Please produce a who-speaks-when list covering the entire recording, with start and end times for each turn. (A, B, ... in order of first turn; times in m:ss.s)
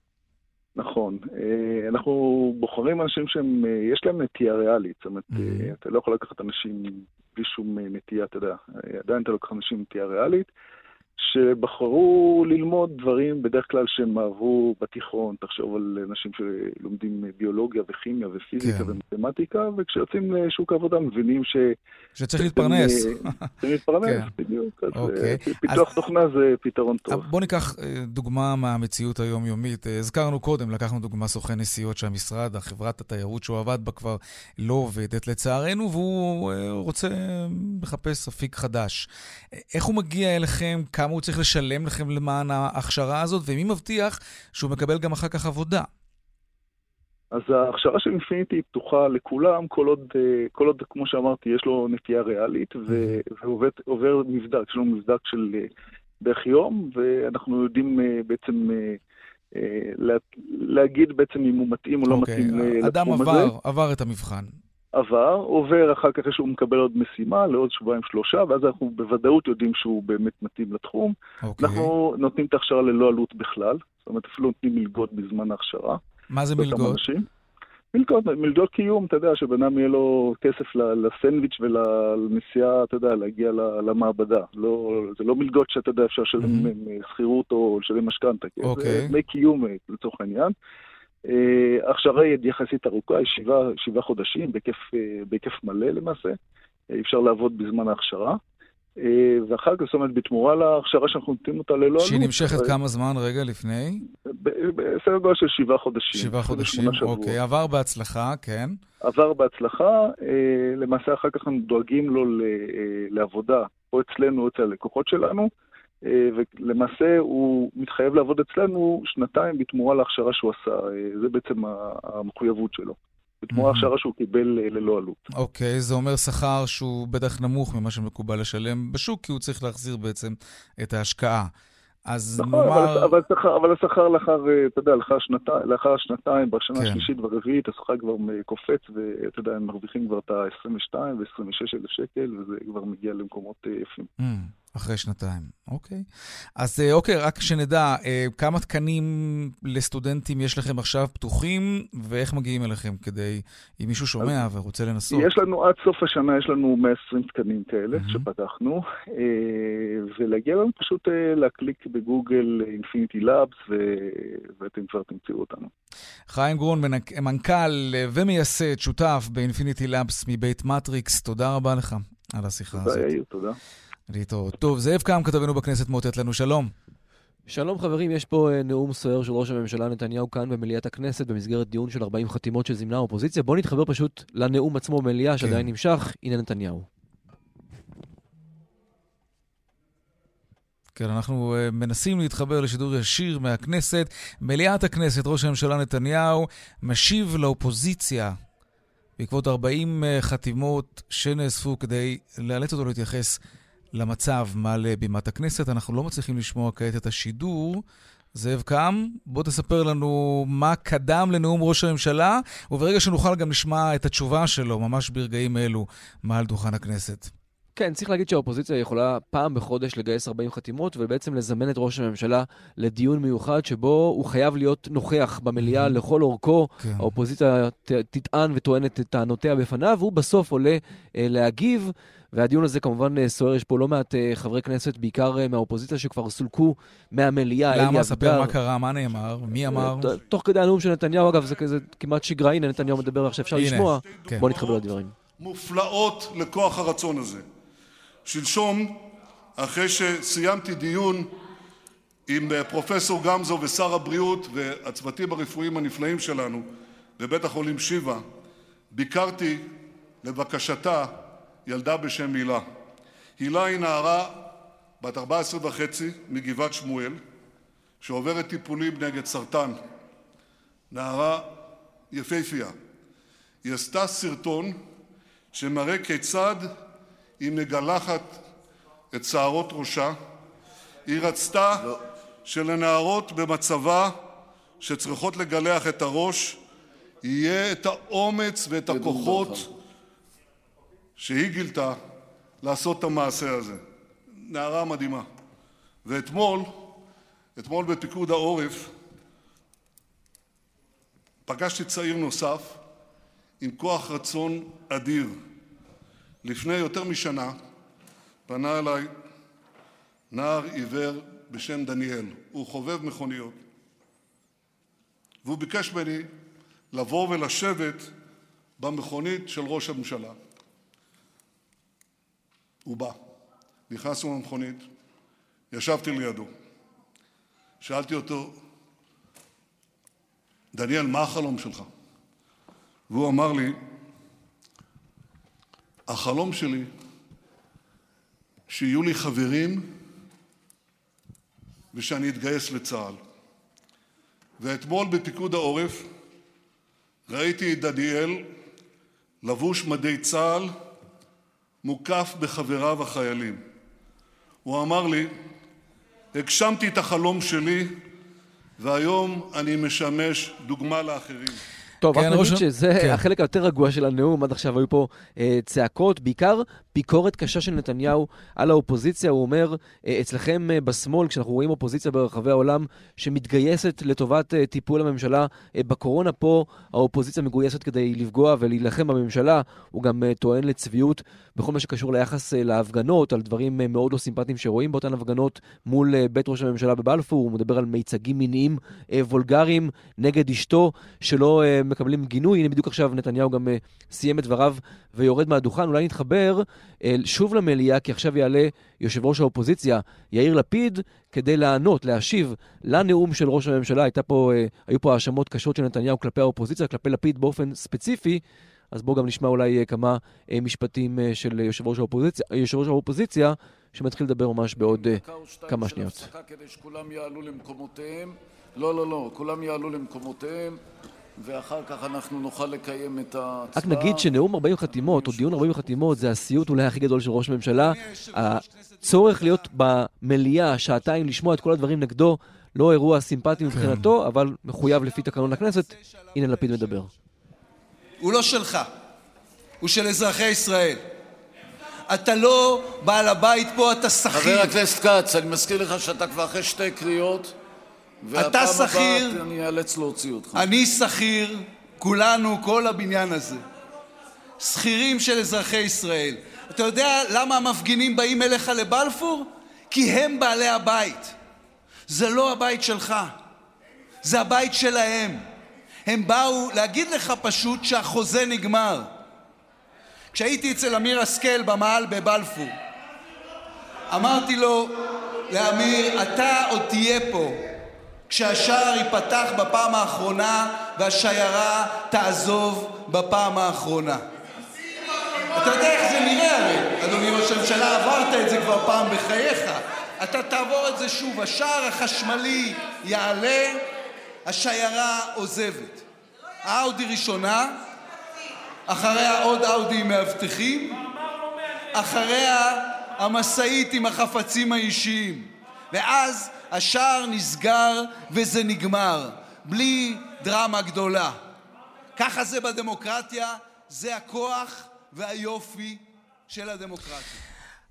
0:00.8-0:10.5 A
0:05.3-0:05.7 B
0:11.2-0:21.7 A
0:18.6-0:19.0 B
0:22.2-0:23.5 B
0:22.4-0:27.3 A
0:24.0-0:24.3 B
0:24.9-0:25.9 B
0:27.1-0:39.1 B
0:39.7-0:45.9 B
0:47.3-0:55.7 A
0:52.9-0:53.2 B
0:56.2-0:59.0 A
0:59.5-1:03.5 A
1:02.1-1:04.6 B
1:05.0-1:16.0 A
1:11.5-1:11.9 B
1:16.3-1:17.0 B
1:16.6-1:17.2 A
1:17.9-1:30.5 A
1:26.4-1:26.7 B
1:28.6-1:29.1 B
1:31.3-1:36.3 A
1:36.9-1:38.4 A
1:39.0-1:42.8 A
1:42.0-1:44.0 B
1:44.2-1:47.4 A
1:46.1-1:48.8 B
1:49.0-1:55.5 A
1:56.0-2:05.2 A
2:03.5-2:03.9 B
2:05.4-2:11.5 B
2:12.1-2:13.1 B
2:12.4-2:24.1 A
2:16.8-2:17.1 B
2:24.2-2:26.0 B
2:26.6-2:35.3 B
2:34.2-2:34.4 A
2:35.1-2:45.7 A
2:37.9-2:38.2 B
2:46.3-2:53.1 B
2:52.7-2:53.6 A
2:54.1-2:56.7 B
2:57.5-3:06.9 C
3:05.4-3:05.7 B
3:11.0-3:18.4 B
3:19.2-3:23.4 B
3:23.9-3:37.3 B
3:37.8-3:58.5 C
3:45.6-3:46.0 B
3:46.8-3:47.1 B
3:57.7-4:00.2 B
3:59.7-4:05.1 C
4:03.5-4:04.5 B
4:04.1-4:07.4 D
4:08.2-4:09.0 D
4:09.6-4:11.3 D
4:12.3-4:18.2 D
4:18.9-4:19.7 D
4:20.2-4:22.6 D
4:23.4-4:24.5 D
4:25.0-4:27.2 D
4:28.0-4:29.8 D
4:30.9-4:31.5 D
4:32.1-4:32.7 D
4:33.6-4:34.8 D
4:35.5-4:36.7 D
4:37.4-4:38.5 D
4:39.1-4:40.2 D
4:41.0-4:41.9 D
4:42.4-4:44.2 D
4:44.8-4:46.6 D
4:47.2-4:49.6 D
4:48.9-4:49.7 E
4:51.2-4:52.0 D
4:52.6-4:53.8 D
4:54.4-4:55.3 D
4:56.0-4:56.9 D
4:57.6-4:58.9 D
5:01.4-5:02.8 D
5:03.6-5:05.3 D
5:06.4-5:07.6 D
5:08.5-5:09.1 D
5:10.3-5:13.6 D
5:15.4-5:16.3 D
5:16.9-5:18.1 D
5:18.8-5:20.4 D
5:22.8-5:23.2 D
5:23.9-5:24.9 D
5:25.7-5:26.5 D
5:27.8-5:28.6 D
5:30.7-5:31.9 D
5:33.1-5:33.8 D
5:36.1-5:36.9 D
5:38.7-5:39.9 D
5:41.9-5:43.2 D
5:44.6-5:46.1 D
5:47.3-5:48.4 D
5:49.4-5:50.7 D
5:51.8-5:53.6 D
5:54.6-5:55.3 D
5:56.3-5:58.0 D
5:58.8-6:01.6 D
6:02.0-6:56.3 C
6:02.1-6:03.2 B
6:54.8-7:00.8 E
7:01.4-7:04.3 E
7:03.8-7:17.1 C
7:04.8-7:05.6 E
7:07.7-7:09.7 F
7:13.7-7:14.1 B
7:15.4-7:16.9 F
7:18.2-7:18.9 F
7:19.8-7:21.0 F
7:22.1-7:24.8 F
7:24.3-7:27.5 E
7:28.2-7:30.7 E
7:28.3-7:29.4 F
7:30.5-7:33.6 F
7:34.6-7:41.4 F
7:42.1-7:43.4 F
7:44.2-7:45.4 F
7:46.0-7:49.1 F
7:50.3-7:52.7 F
7:54.1-7:57.6 F
7:58.3-8:04.2 F
8:05.5-8:13.8 F
8:14.4-8:16.0 F
8:16.6-8:17.8 F
8:18.9-8:21.0 F
8:21.9-8:31.4 F
8:32.2-8:37.4 F